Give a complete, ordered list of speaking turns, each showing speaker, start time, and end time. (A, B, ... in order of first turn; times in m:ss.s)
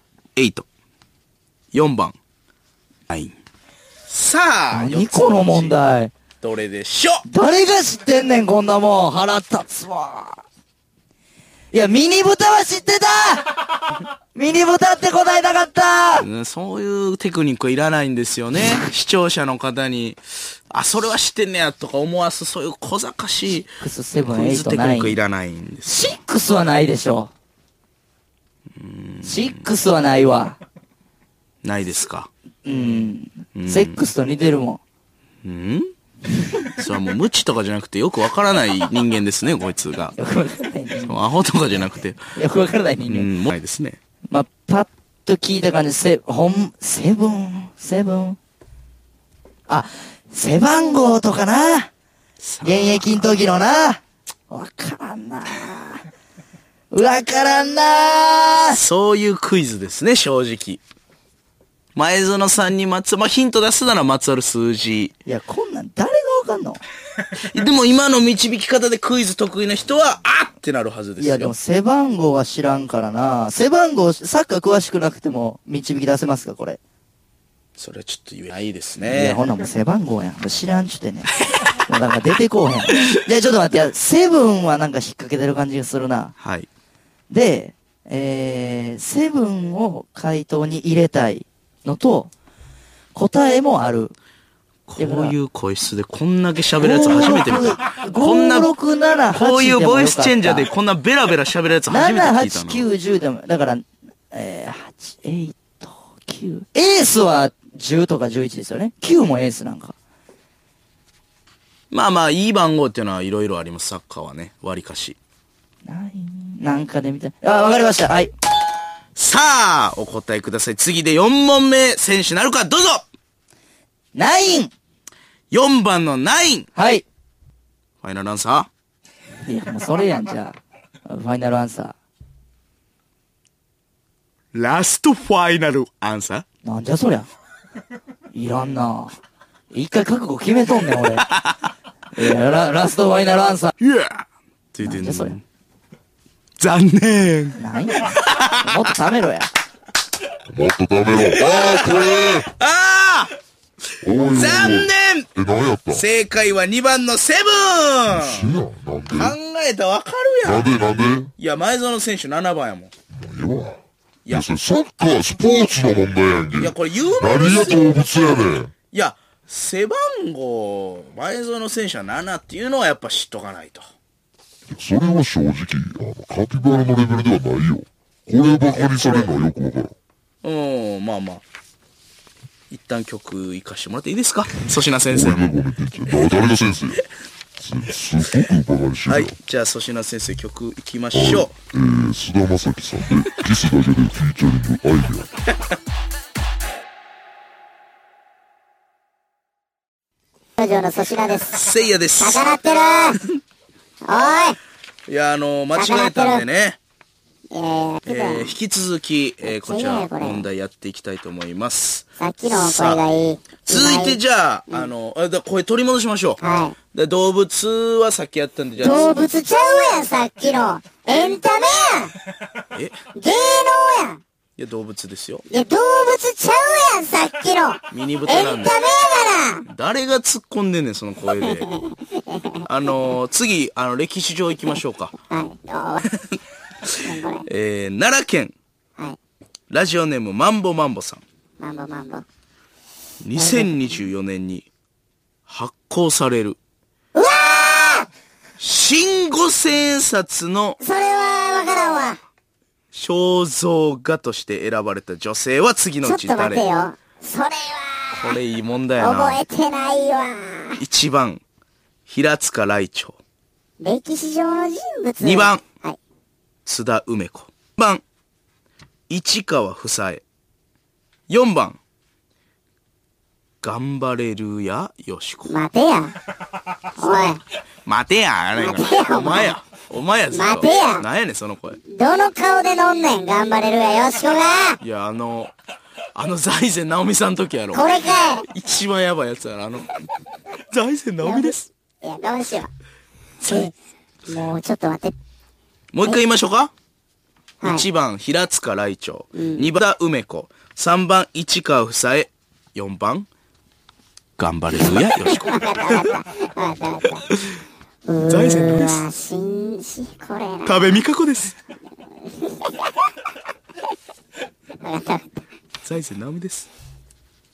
0:00.4-0:00.6 A
0:01.7-0:02.2 A
0:03.1-0:03.3 A
0:04.1-0:05.8 A
0:04.7-0:06.1 B
0:06.4-0:07.2 A
0:07.3-0:10.4 B
0:11.7-0:13.6 B
0:14.3-0:16.2 B
0:16.2-0:23.7 A
0:23.8-0:25.2 B
0:24.3-0:26.1 A
0:25.9-0:27.3 B
0:28.8-0:29.6 A
0:29.2-0:30.6 B
0:31.6-0:32.3 A
0:32.6-0:34.8 B
0:33.5-0:34.0 A
0:35.4-0:35.9 A
0:36.8-0:40.1 A
0:40.2-0:41.2 B
0:41.0-0:42.2 A
0:42.3-0:43.3 B
0:43.1-0:44.0 A
0:44.3-0:48.4 B
0:49.7-0:51.9 B
0:52.4-0:53.4 A
0:52.6-0:56.0 B
0:56.9-0:58.8 B
0:58.7-1:00.8 A
1:02.0-1:05.2 A
1:05.2-1:06.8 B
1:07.5-1:11.5 A
1:11.2-1:16.8 B
1:17.8-1:19.4 A
1:19.1-1:21.3 B
1:21.8-1:26.3 B
1:26.4-1:26.7 A
1:27.3-1:32.3 B
1:33.1-1:34.1 B
1:34.9-1:38.7 A
1:35.0-1:35.3 B
1:36.8-1:40.7 B
1:39.3-1:42.8 A
1:41.9-1:49.9 B
1:51.9-1:55.2 A
1:55.8-1:58.3 B
1:59.2-2:03.0 A
2:04.1-2:04.7 B
2:05.5-2:06.7 A
2:06.8-2:07.0 B
2:08.0-2:08.7 A
2:09.4-2:12.0 B
2:14.5-2:16.4 A
2:16.6-2:17.3 B
2:18.3-2:19.1 B
2:19.7-2:21.4 B
2:22.1-2:23.7 B
2:23.8-2:25.4 A
2:24.8-2:25.3 B
2:26.6-2:28.5 A
2:27.6-2:29.5 B
2:30.5-2:32.5 C
2:31.1-2:33.3 A
2:34.0-2:36.0 C
2:34.3-2:35.3 A
2:35.9-2:38.5 A
2:38.1-2:39.4 C
2:39.1-2:40.7 A
2:40.4-2:41.3 C
2:41.4-2:42.9 A
2:43.1-2:48.7 C
2:46.6-2:48.0 A
2:48.9-2:53.8 A
2:54.7-2:59.9 C
3:00.4-3:01.4 A
3:02.7-3:05.5 A
3:05.1-3:07.0 C
3:07.6-3:09.4 C
3:09.1-3:11.5 A
3:11.1-3:15.3 C
3:20.6-3:21.6 D
3:21.5-3:22.5 A
3:22.2-3:23.2 D
3:24.0-3:24.6 D
3:25.1-3:26.8 A
3:25.8-3:26.4 D
3:27.5-3:28.5 D
3:28.0-3:36.4 A
3:29.4-3:30.4 D
3:32.2-3:34.2 D
3:36.4-3:36.7 D
3:36.9-3:39.2 A
3:38.8-3:42.1 D
3:42.7-3:43.0 A
3:43.1-3:44.2 D
3:44.6-3:45.4 A
3:45.5-3:49.6 D
3:47.9-3:48.7 A
3:49.6-3:51.8 A
3:51.6-3:52.6 D
3:52.6-3:55.1 A
3:55.3-3:56.0 D
3:57.0-3:57.4 D
3:57.4-3:58.5 A
3:59.7-4:01.2 A
4:01.6-4:02.2 D
4:03.2-4:04.7 A
4:03.3-4:04.0 D
4:05.5-4:06.6 A
4:07.1-4:08.1 D
4:08.6-4:10.8 A
4:10.8-4:12.2 D
4:12.9-4:16.6 A
4:16.0-4:18.3 D
4:18.1-4:19.4 A
4:19.0-4:20.8 D
4:20.8-4:21.4 A
4:22.1-4:23.2 A
4:23.8-4:26.0 D
4:25.2-4:25.6 A
4:26.6-4:28.0 A
4:29.1-4:30.2 A
4:31.3-4:31.8 A
4:33.6-4:35.6 A
4:35.5-4:36.1 D
4:37.0-4:37.4 D
4:37.8-4:41.8 A
4:38.6-4:39.6 D
4:40.3-4:41.0 D
4:41.9-4:44.8 D
4:44.8-4:45.5 A
4:46.1-4:47.9 A
4:47.7-4:48.4 D
4:48.4-4:50.0 A
4:50.7-4:51.7 A
4:51.2-4:52.7 D
4:53.4-4:53.7 D
4:54.3-4:55.1 D
4:55.9-4:56.7 A
4:57.6-5:03.3 A
4:59.3-4:59.7 D
5:04.4-5:06.1 A
5:04.7-5:07.3 D
5:08.0-5:11.0 D
5:08.2-5:09.0 A
5:10.6-5:11.6 A
5:12.4-5:12.8 D
5:14.8-5:15.2 D
5:15.8-5:16.7 A